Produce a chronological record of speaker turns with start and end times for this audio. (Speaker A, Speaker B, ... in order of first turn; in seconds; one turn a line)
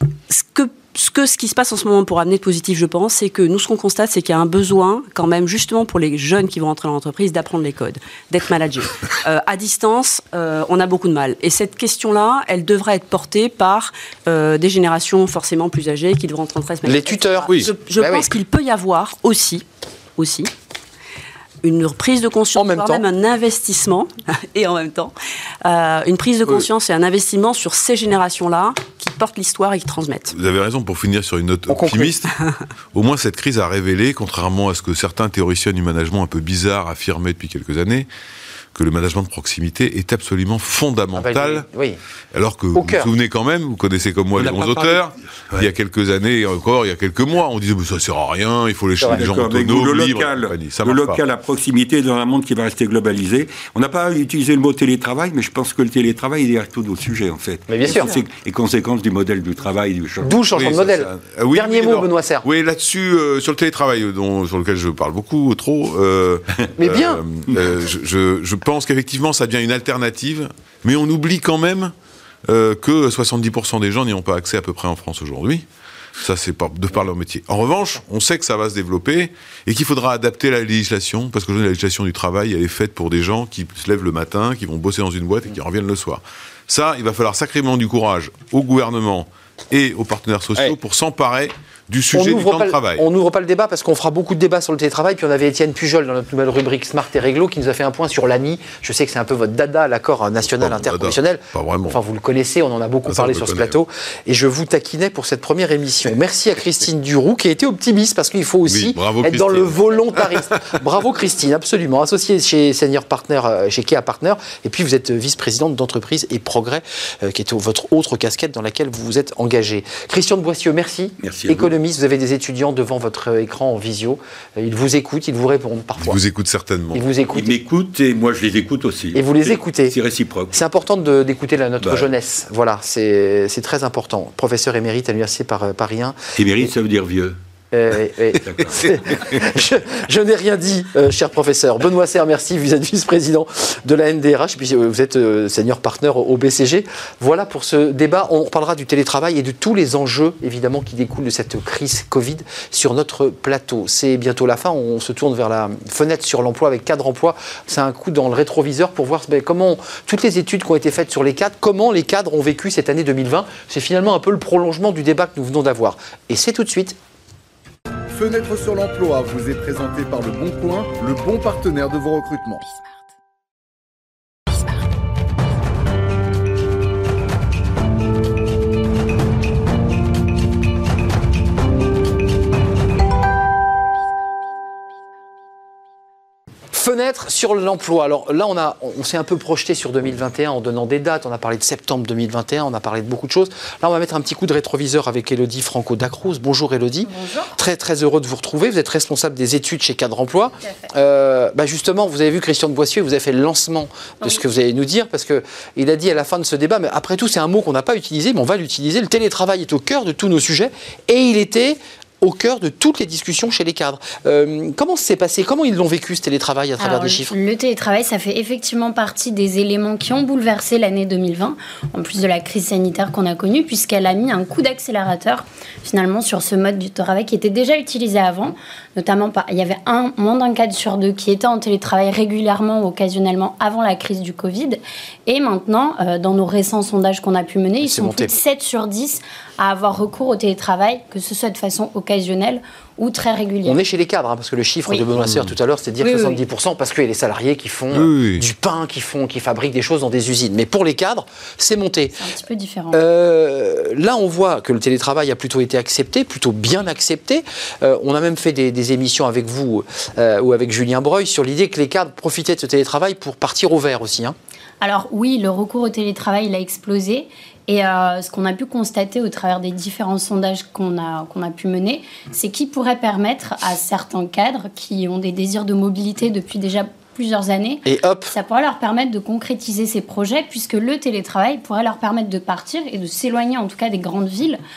Speaker A: 0.3-19.6
Speaker B: 16.9-18.3
Speaker A: 20.2-20.5
Speaker A: 21.6-25.1
Speaker B: 22.6-23.1
Speaker A: 25.6-30.4
Speaker C: 30.3-32.3
Speaker B: 31.7-32.1
Speaker C: 32.9-38.1
Speaker C: 38.7-41.7
Speaker B: 41.1-42.0
Speaker C: 42.3-51.2
Speaker B: 42.7-43.1
Speaker D: 44.3-45.7
Speaker D: 49.0-60.9
Speaker B: 57.7-58.2
Speaker B: 60.2-62.5
Speaker C: 60.5-71.9
Speaker B: 66.8-67.2
Speaker C: 72.5-75.7
Speaker C: 76.2-93.0
Speaker B: 92.1-126.2
Speaker C: 100.5-102.0
Speaker C: 103.1-103.8
Speaker C: 108.7-109.7
Speaker D: 121.2-121.7
Speaker C: 126.0-127.0
Speaker B: 126.9-127.6
Speaker D: 127.3-130.5
Speaker B: 129.1-130.0
Speaker B: 130.5-136.7
Speaker D: 131.8-132.1
Speaker D: 136.3-137.4
Speaker B: 137.7-167.0
Speaker D: 138.4-139.3
Speaker E: 168.1-172.7
Speaker B: 186.7-217.3
Speaker F: 197.0-197.6
Speaker F: 200.6-200.9
Speaker F: 216.8-243.8
Speaker B: 237.8-238.3
Speaker B: 243.6-252.2
Speaker F: 246.0-246.4
Speaker C: 247.9-248.4
Speaker F: 252.2-253.0
Speaker B: 252.9-264.4
Speaker F: 264.8-284.6
Speaker B: 277.9-278.3